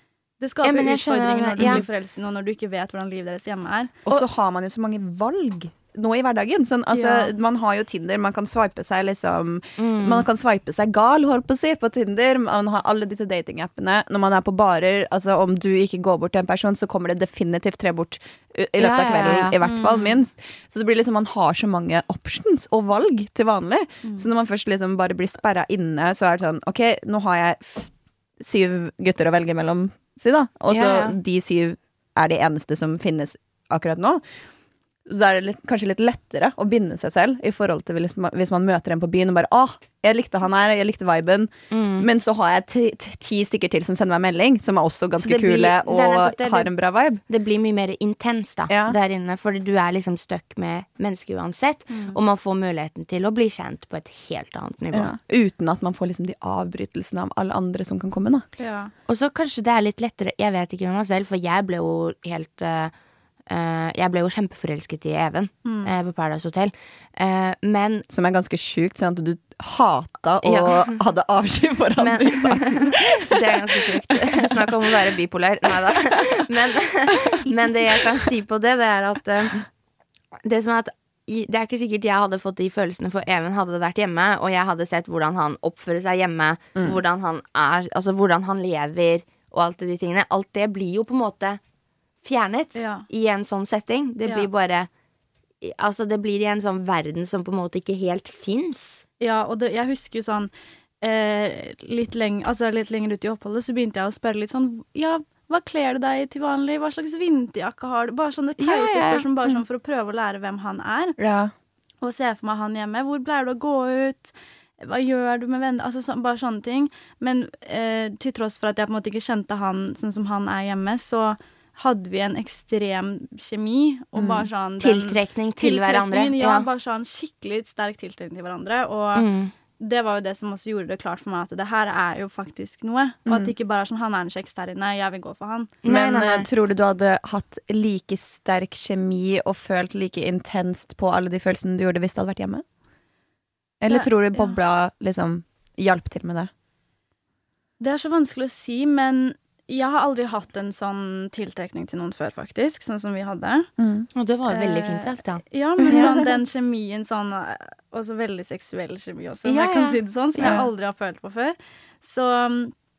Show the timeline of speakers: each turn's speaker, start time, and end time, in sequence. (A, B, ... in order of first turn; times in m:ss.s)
0:00.4-0:04.2 A
0:00.6-0:01.8 B
0:04.0-0:34.2 C
0:06.9-0:07.3 A
0:09.8-0:10.3 B
0:18.8-0:19.6 B
0:19.6-0:20.2 A
0:30.7-0:31.2 B
0:35.1-0:47.2 C
0:41.7-0:42.1 B
0:45.2-0:46.7 B
0:47.3-0:55.1 B
0:48.7-0:49.0 C
0:51.9-0:52.2 A
0:54.9-0:58.4 C
0:58.6-0:58.9 A
0:59.1-1:02.9 B
1:03.5-1:08.0 B
1:05.6-1:05.9 A
1:08.1-1:14.7 C
1:10.4-1:11.0 B
1:12.0-1:19.6 B
1:20.4-1:31.6 B
1:32.2-1:34.9 B
1:32.7-1:33.0 A
1:35.6-1:39.0 B
1:39.2-1:51.1 A
1:48.6-1:49.3 B
1:51.2-1:51.5 C
1:52.0-2:09.2 A
2:04.2-2:04.4 C
2:04.8-2:06.7 B
2:09.2-2:09.5 B
2:09.8-2:15.7 A
2:13.2-2:13.5 C
2:15.8-2:16.5 B
2:15.8-2:22.6 C
2:23.8-2:26.5 C
2:23.9-2:24.5 A
2:27.8-2:33.7 A
2:33.8-2:34.1 C
2:34.1-2:36.2 B
2:34.5-2:42.7 A
2:35.8-2:36.1 C
2:39.4-2:40.6 B
2:40.4-2:40.7 C